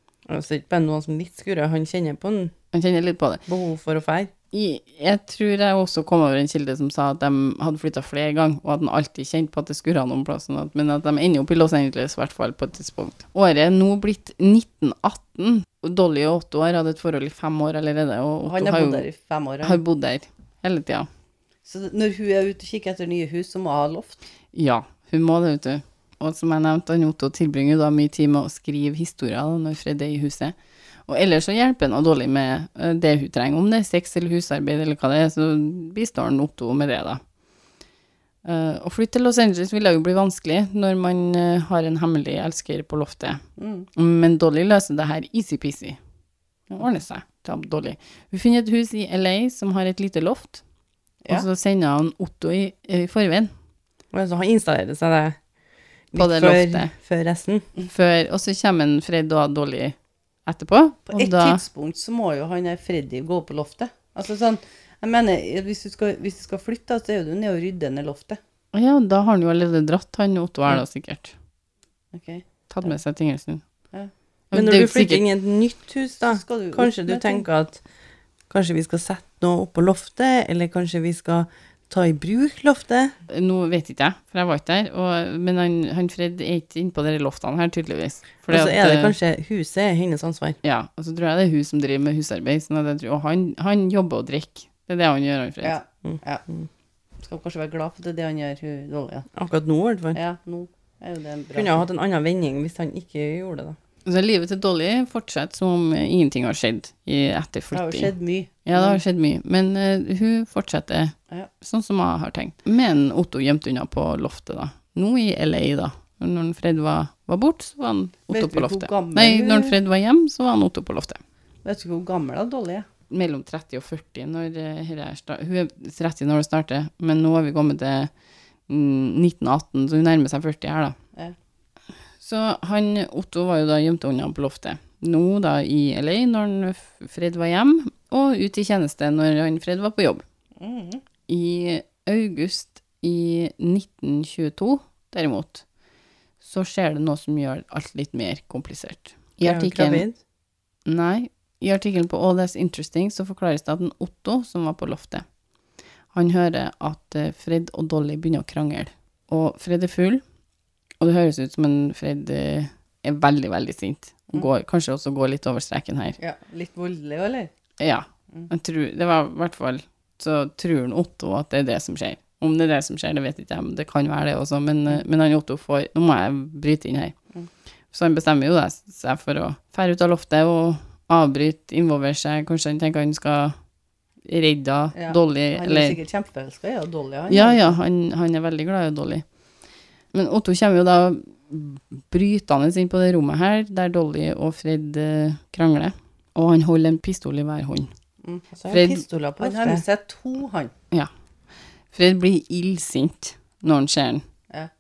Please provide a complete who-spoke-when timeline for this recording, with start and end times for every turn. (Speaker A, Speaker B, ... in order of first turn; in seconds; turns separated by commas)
Speaker A: 0.3-2.5, Speaker B: 2.7-3.4, Speaker A: 3.5-4.3, Speaker B: 4.5-19.1, Speaker C: 18.4-19.8, Speaker B: 19.6-21.1, Speaker C: 21.6-24.2, Speaker B: 24.5-30.6, Speaker B: 31.1-37.2, Speaker B: 38.5-43.4, Speaker C: 43.6-43.9, Speaker B: 44.0-46.0, Speaker B: 46.7-50.6, Speaker B: 51.3-53.5, Speaker A: 54.1-55.4, Speaker A: 56.1-57.7, Speaker B: 56.1-56.9, Speaker B: 57.9-61.6, Speaker C: 61.1-68.4, Speaker B: 68.7-71.3, Speaker C: 72.1-73.0, Speaker B: 72.7-73.6, Speaker B: 74.5-75.2, Speaker A: 74.5-77.8, Speaker C: 76.2-77.5, Speaker A: 78.5-83.2, Speaker B: 83.3-89.1, Speaker A: 88.5-90.6, Speaker B: 90.6-95.8, Speaker C: 95.6-96.5, Speaker A: 96.0-96.7, Speaker C: 97.2-99.3, Speaker A: 99.3-100.2, Speaker C: 100.1-101.8, Speaker A: 101.5-103.8, Speaker B: 104.1-108.1, Speaker C: 107.7-109.0, Speaker B: 108.7-121.2, Speaker C: 118.3-119.8, Speaker C: 121.6-122.9, Speaker B: 123.1-128.1, Speaker B: 128.7-131.0, Speaker B: 132.2-140.2, Speaker C: 140.6-141.0, Speaker B: 141.3-145.7, Speaker B: 146.4-150.1, Speaker A: 149.4-150.2, Speaker B: 150.9-155.2, Speaker B: 156.1-160.2, Speaker B: 161.0-166.2, Speaker C: 166.2-167.5, Speaker B: 167.8-177.1, Speaker B: 177.9-183.6, Speaker B: 184.3-186.0, Speaker C: 184.9-187.8, Speaker B: 187.3-189.2, Speaker B: 190.1-197.9, Speaker C: 198.2-198.5, Speaker A: 198.5-199.8, Speaker B: 198.7-199.0, Speaker C: 199.4-200.7, Speaker B: 201.9-204.2